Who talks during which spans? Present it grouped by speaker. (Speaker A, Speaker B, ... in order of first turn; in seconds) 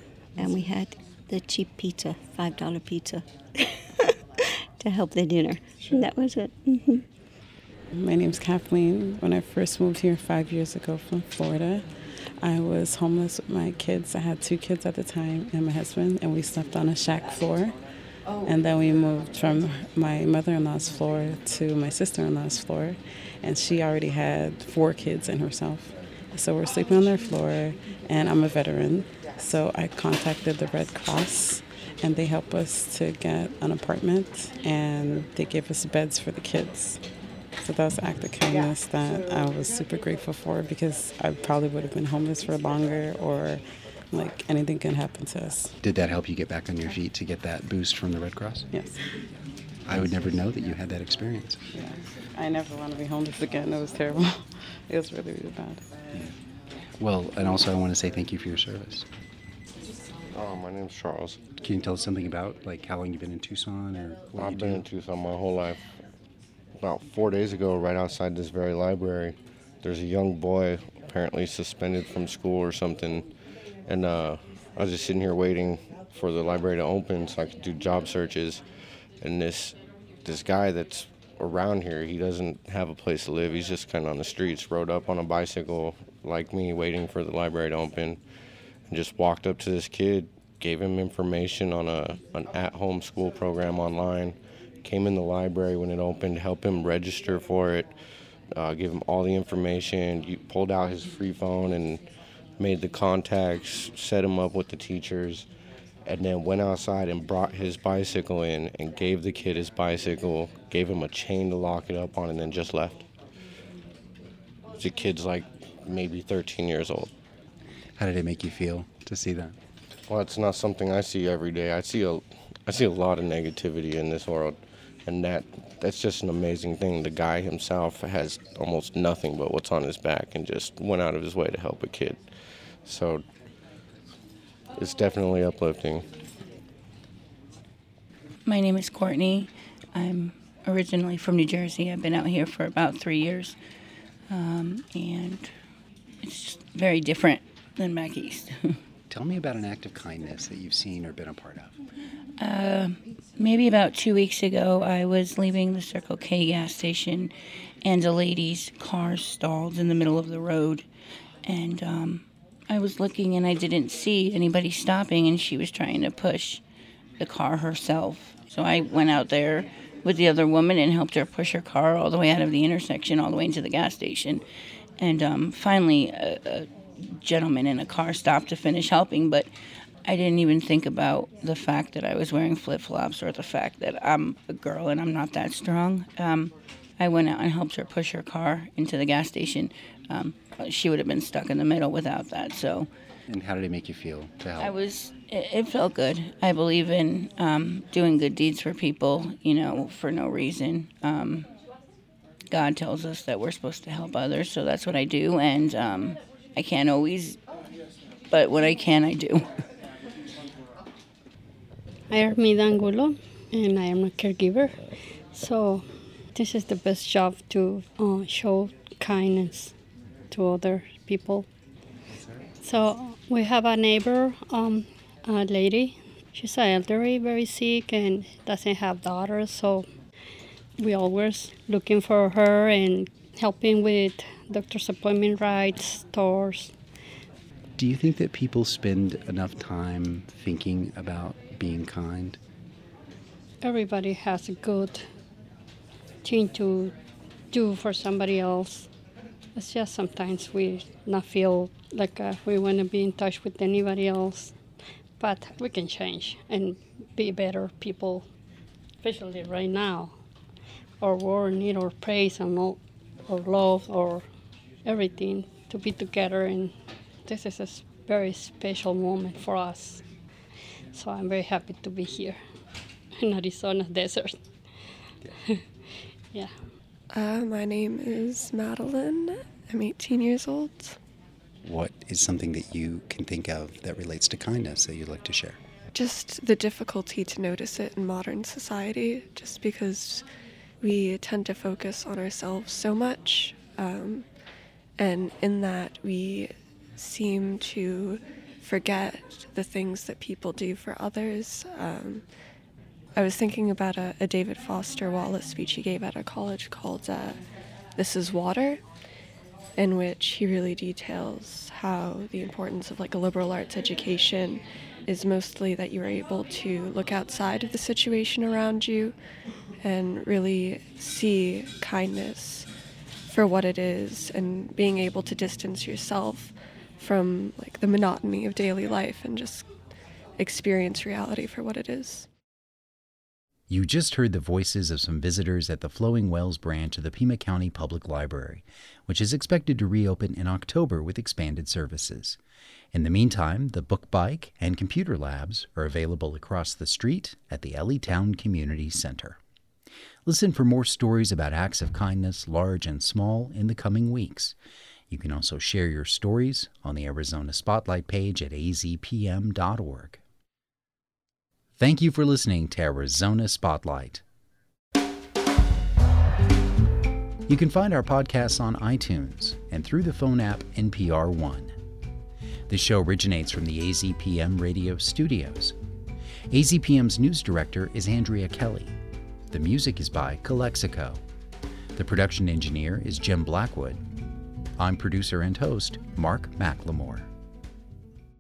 Speaker A: 0.4-4.1, 4.8-7.0
Speaker B: 7.9-11.8, 12.4-17.8, 18.4-37.0, 37.6-45.8, 48.7-49.0, 51.7-55.8
Speaker C: 45.8-48.6, 49.9-51.6, 57.0-59.0, 61.6-64.8, 118.0-119.6, 149.1-151.7, 193.3-194.7, 237.8-242.4, 281.6-285.6, 333.7-342.4, 342.9-349.4, 350.3-354.6, 355.1-360.2, 361.8-364.2, 367.5-371.8, 372.7-375.8, 376.5-378.9, 379.5-381.2, 382.0-384.0, 384.8-387.3
Speaker D: 60.3-61.4, 64.3-65.9, 66.8-73.3, 73.9-78.6, 79.2-88.2, 88.9-97.9, 98.5-102.0, 102.6-105.5, 106.1-113.0, 114.8-117.1, 120.1-132.3, 132.8-133.2, 134.8-136.1
Speaker E: 138.4-143.6, 144.3-145.5, 146.2-148.8, 152.4-157.3, 157.8-160.9, 161.4-166.6, 167.2-174.4, 175.0-179.5, 180.1-192.9, 194.6-201.5, 202.5-207.4, 208.3-209.5
Speaker F: 212.1-219.8, 220.3-221.5, 222.6-229.9, 230.8-236.8, 243.6-245.1, 246.2-246.9, 247.5-248.9, 249.6-254.6, 255.2-258.3, 259.0-260.2, 261.0-264.2, 264.9-270.0, 270.9-272.4, 273.2-274.4, 276.3-276.6
Speaker G: 277.1-281.0, 285.9-290.2, 290.8-294.3, 295.0-302.3, 303.2-307.4, 308.0-308.8, 309.8-319.2, 319.8-322.7, 323.3-329.7, 330.4-332.3